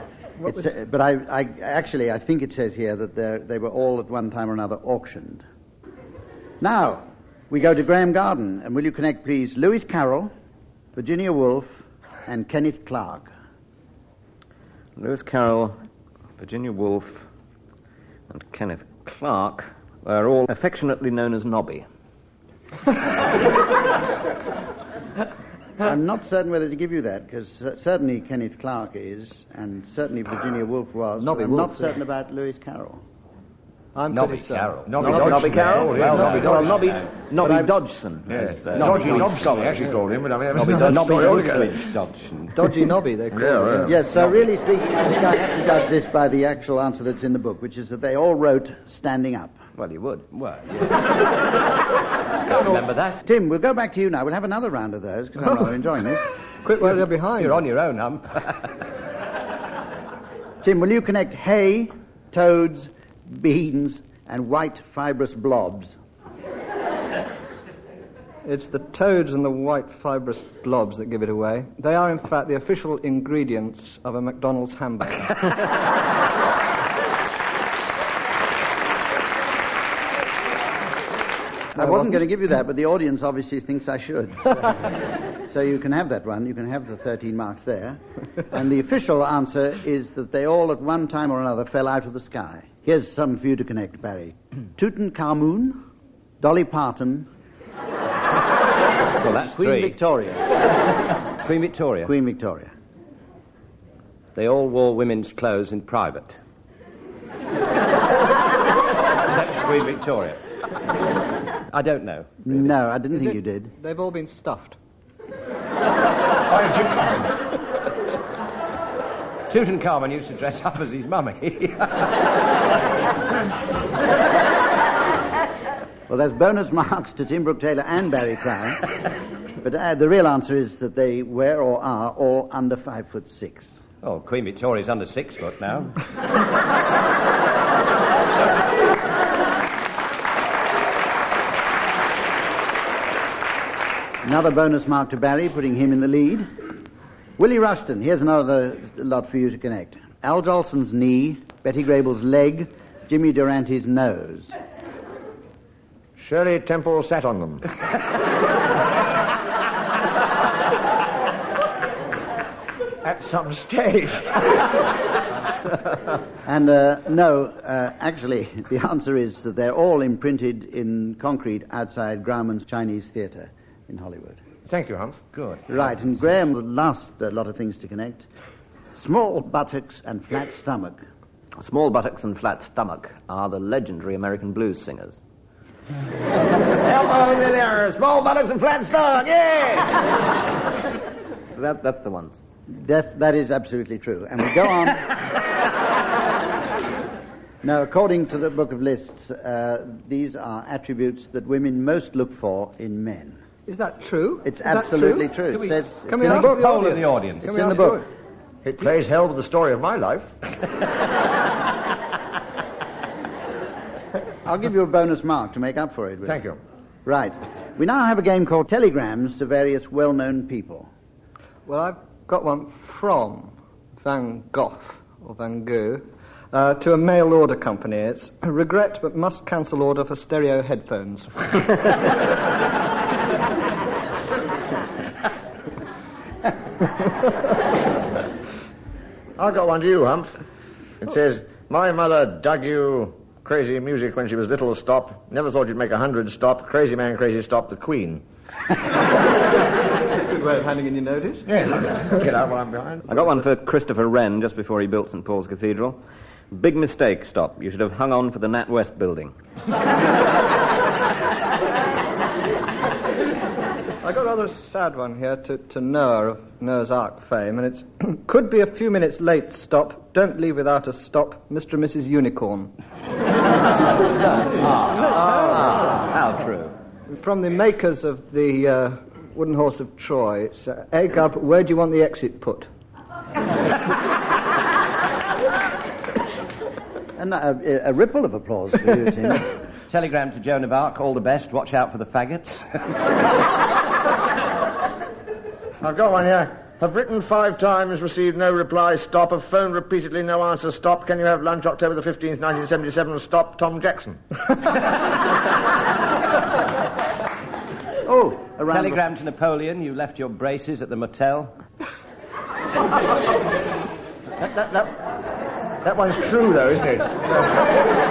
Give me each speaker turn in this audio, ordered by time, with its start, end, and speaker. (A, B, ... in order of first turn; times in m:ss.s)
0:00.4-0:05.4 A
0:06.6-0:10.3 A
0:11.0-0:13.3 A
0:15.0-0:15.8 B
0:16.4-0:17.3 B
0:18.3-0:21.9 B
0:25.8-0:33.0 A
0:31.2-0:31.9 C
0:34.0-0:34.9 C
0:34.1-0:37.5 D
0:34.9-0:37.0 E
0:35.0-0:39.9 B
0:38.3-0:41.8 E
0:38.5-0:39.8 D
0:40.5-0:41.7 B
0:40.7-0:42.6 D
0:42.6-0:44.1 C
0:43.3-0:44.0 E
0:43.8-0:49.6 A
0:49.8-0:51.3 D
0:52.5-0:53.2 D
0:53.2-0:56.3 A
0:56.6-0:57.6 C
0:57.4-0:58.7 D
1:00.6-1:06.0 A
1:08.4-1:15.4 C
1:21.7-1:35.8 A
1:36.4-1:37.3 A
1:39.2-1:40.0 D
1:39.5-1:40.4 A
1:41.4-1:42.1 D
1:42.0-1:42.7 A
1:44.4-1:46.4 D
1:49.2-1:50.4 D
1:51.7-1:52.7 D
1:52.4-1:53.7 A
1:53.8-1:54.8 C
1:56.5-1:57.3 E
1:59.5-2:02.2 D
2:06.1-2:09.0 A
2:09.6-2:13.8 A
2:14.0-2:16.0 D
2:24.2-2:26.5 A
2:27.4-2:34.6 A
2:36.2-2:37.7 E
2:43.0-2:44.6 E
2:46.4-2:54.4 A
2:54.7-2:55.2 E
2:55.3-2:55.8 D
2:55.7-2:58.3 A
2:58.9-3:01.0 A
3:01.6-3:05.2 B
3:06.8-3:10.0 B
3:11.5-3:12.4 B
3:12.7-3:15.1 A
3:17.6-3:23.4 A
3:23.7-3:25.5 C
3:24.4-3:28.0 A
3:26.0-3:28.1 C
3:26.2-3:27.7 D
3:28.6-3:30.5 E
3:34.4-3:36.4 A
3:36.3-3:36.6 E
3:37.1-3:40.9 A
3:41.7-3:51.5 C
3:59.4-4:00.4 E
4:01.0-4:08.2 E
4:10.2-4:11.5 C
4:11.5-4:13.4 E
4:13.1-4:19.3 B
4:24.0-4:32.7 C
4:34.0-4:36.7 D
4:35.1-4:35.8 C
4:37.1-4:42.7 C
4:47.2-4:49.6 A
4:49.9-4:53.0 D
4:55.8-5:04.2 E
5:08.0-5:09.0 A
5:08.6-5:11.6 D
5:14.4-5:15.1 E
5:15.8-5:17.2 E